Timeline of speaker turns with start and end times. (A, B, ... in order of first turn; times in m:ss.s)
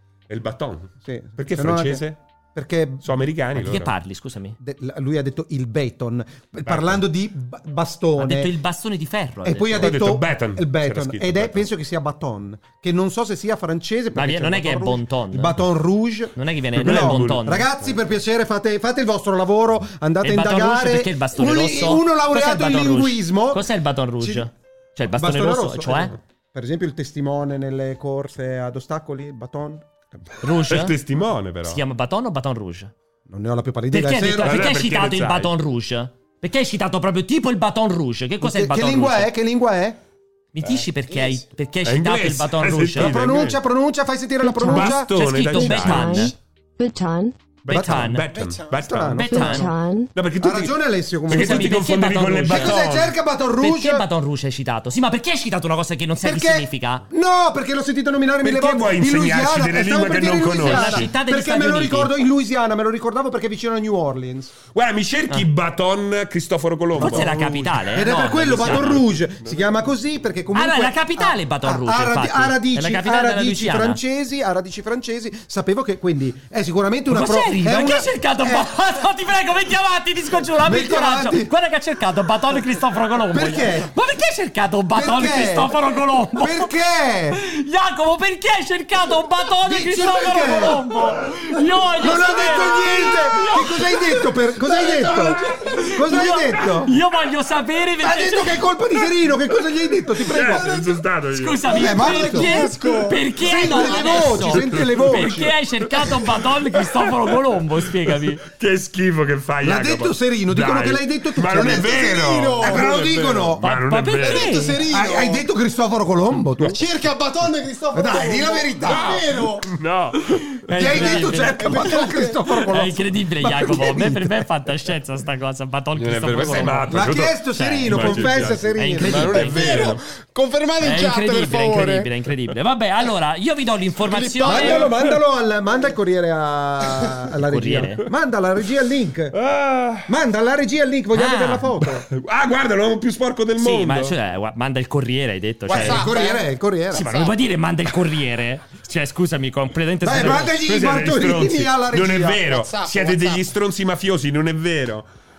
0:00.3-0:02.2 A
0:01.0-0:02.0 B
0:02.5-0:03.0 B
0:03.0-0:03.9 A
0:03.6-0:04.6 C
0:04.6-0:08.5 B
0:06.6-0:07.0 A
0:08.2-0:09.9 C
0:09.4-0:23.6 B
0:09.8-0:11.7 A
0:14.1-0:15.6 C
0:16.3-0:17.7 C
0:16.8-0:18.0 A
0:20.2-0:26.1 C
0:24.2-0:24.5 B
0:25.2-0:29.9 B
0:30.4-0:30.9 C
0:30.7-0:31.8 A
0:31.6-0:32.9 C
0:33.3-0:34.7 B
0:33.9-0:39.3 C
0:34.3-0:35.5 A
0:38.4-0:40.0 B
0:40.5-0:43.1 C
0:41.8-0:43.6 A
0:43.0-0:46.0 B
0:44.4-0:44.8 D
0:44.6-0:46.3 A
0:44.6-0:46.3 C
0:45.5-0:47.5 D
0:47.6-0:53.1 A
0:47.7-0:48.3 C
0:47.7-0:48.1 B
0:48.3-0:48.8 E
0:48.9-0:49.6 B
0:49.1-0:49.7 C
0:49.3-0:50.1 D
0:50.4-0:51.7 B
0:51.3-0:52.8 C
0:52.5-0:54.0 B
0:53.6-0:57.0 C
0:56.2-1:04.5 B
0:58.4-1:01.1 A
1:00.6-1:02.1 C
1:04.7-1:07.4 A
1:07.0-1:18.7 B
1:07.0-1:09.0 C
1:08.1-1:09.6 A
1:10.5-1:14.0 C
1:17.1-1:26.7 C
1:20.6-1:21.5 B
1:23.3-1:23.9 B
1:24.9-1:25.8 B
1:26.3-1:27.4 B
1:27.3-1:38.6 C
1:29.6-1:30.8 B
1:32.0-1:35.4 B
1:35.9-1:36.9 B
1:38.0-1:40.8 B
1:40.2-1:41.6 A
1:41.3-1:48.4 C
1:41.7-1:42.7 B
1:42.0-1:43.2 E
1:43.4-1:45.5 B
1:44.0-1:45.2 A
1:46.0-1:46.3 A
1:47.1-1:47.3 A
1:48.4-1:54.6 A
1:49.6-1:53.6 B
1:51.6-1:52.9 E
1:53.6-1:54.9 C
1:54.3-1:55.4 E
1:54.5-1:56.8 B
1:56.7-1:59.6 E
1:57.9-1:59.4 B
1:58.8-2:00.2 A
2:00.7-2:02.0 C
2:00.7-2:01.4 A
2:00.7-2:04.4 B
2:01.7-2:02.3 E
2:02.7-2:10.0 C
2:06.0-2:10.0 A
2:06.9-2:09.9 B
2:09.4-2:12.1 E
2:10.8-2:14.9 C
2:14.0-2:15.0 E
2:14.4-2:19.3 B
2:17.5-2:18.0 C
2:19.3-2:20.1 A
2:20.1-2:22.0 B
2:21.1-2:21.7 C
2:21.8-2:24.1 A
2:23.6-2:26.1 C
2:25.7-2:26.4 E
2:25.8-2:27.0 B
2:26.9-2:30.5 C
2:30.0-2:32.5 B
2:30.1-2:35.0 A
2:32.5-2:33.4 E